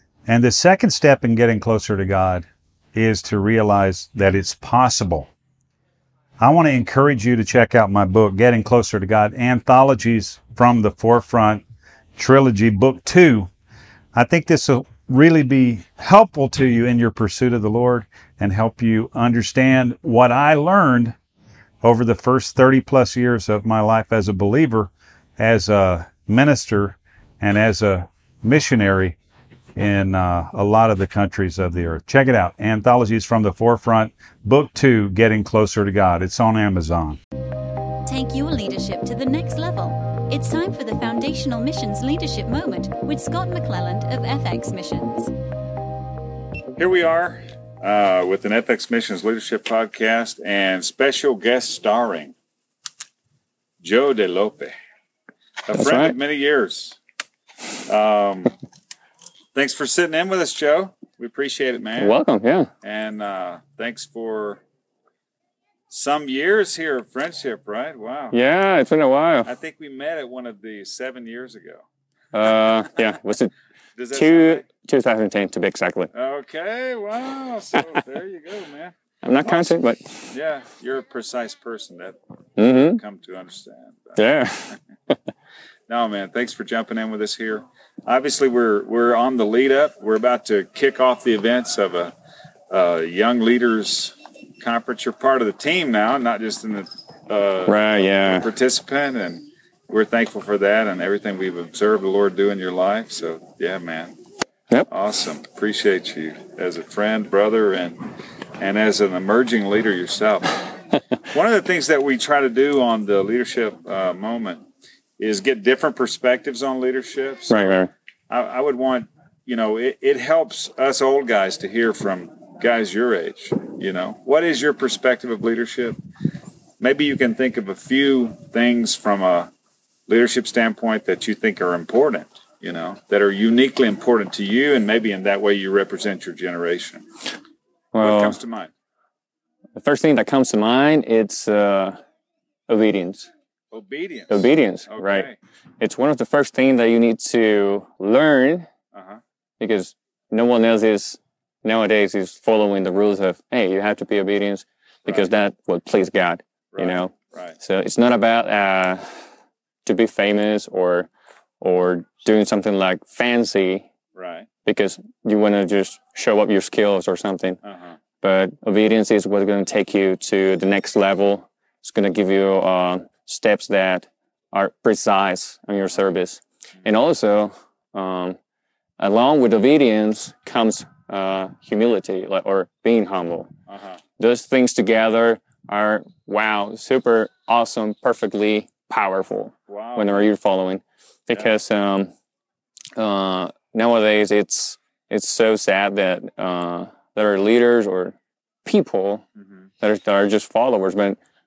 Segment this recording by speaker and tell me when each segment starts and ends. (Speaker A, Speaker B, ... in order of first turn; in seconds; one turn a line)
Speaker A: 0.3-5.3
Speaker A: 6.4-11.6
Speaker A: 12.2-13.5
Speaker A: 14.1-21.1
Speaker A: 21.8-29.1
Speaker A: 29.8-37.2
Speaker B: 38.0-45.3
Speaker A: 46.8-52.3
Speaker A: 53.8-54.7
Speaker A: 55.6-57.0
Speaker C: 55.7-56.2
Speaker A: 57.8-58.5
Speaker A: 59.5-62.2
Speaker C: 62.0-62.7
Speaker A: 62.8-64.6
Speaker A: 65.9-68.4
Speaker C: 68.3-69.5
Speaker A: 69.4-71.8
Speaker C: 72.3-73.5
Speaker A: 74.0-74.6
Speaker C: 74.1-76.1
Speaker A: 76.1-79.8
Speaker C: 79.2-80.3
Speaker A: 80.3-84.7
Speaker C: 82.6-83.0
Speaker C: 84.2-85.1
Speaker A: 85.9-92.1
Speaker A: 92.7-104.2
Speaker C: 97.7-98.5
Speaker A: 104.9-108.0
Speaker A: 108.6-110.6
Speaker A: 111.2-114.6
Speaker A: 115.2-126.0
Speaker C: 117.5-117.9
Speaker A: 126.8-129.5
Speaker A: 130.1-137.0
Speaker C: 137.9-138.4
Speaker A: 138.0-138.7
Speaker C: 139.8-142.0
Speaker C: 142.7-143.3
Speaker A: 143.7-145.4
Speaker C: 144.3-145.3
Speaker C: 145.8-148.7
Speaker A: 148.9-149.2
Speaker C: 149.6-159.1
Speaker A: 155.1-155.3
Speaker A: 156.7-157.6
Speaker C: 159.8-161.1
Speaker C: 161.6-163.9
Speaker A: 164.1-164.5
Speaker C: 164.6-167.6
Speaker A: 167.6-168.0
Speaker C: 168.2-178.4
Speaker C: 179.0-183.5
Speaker A: 183.7-184.0
Speaker C: 184.2-192.1
Speaker A: 189.7-190.3
Speaker C: 192.9-199.2
Speaker A: 199.4-199.7
Speaker C: 199.8-201.2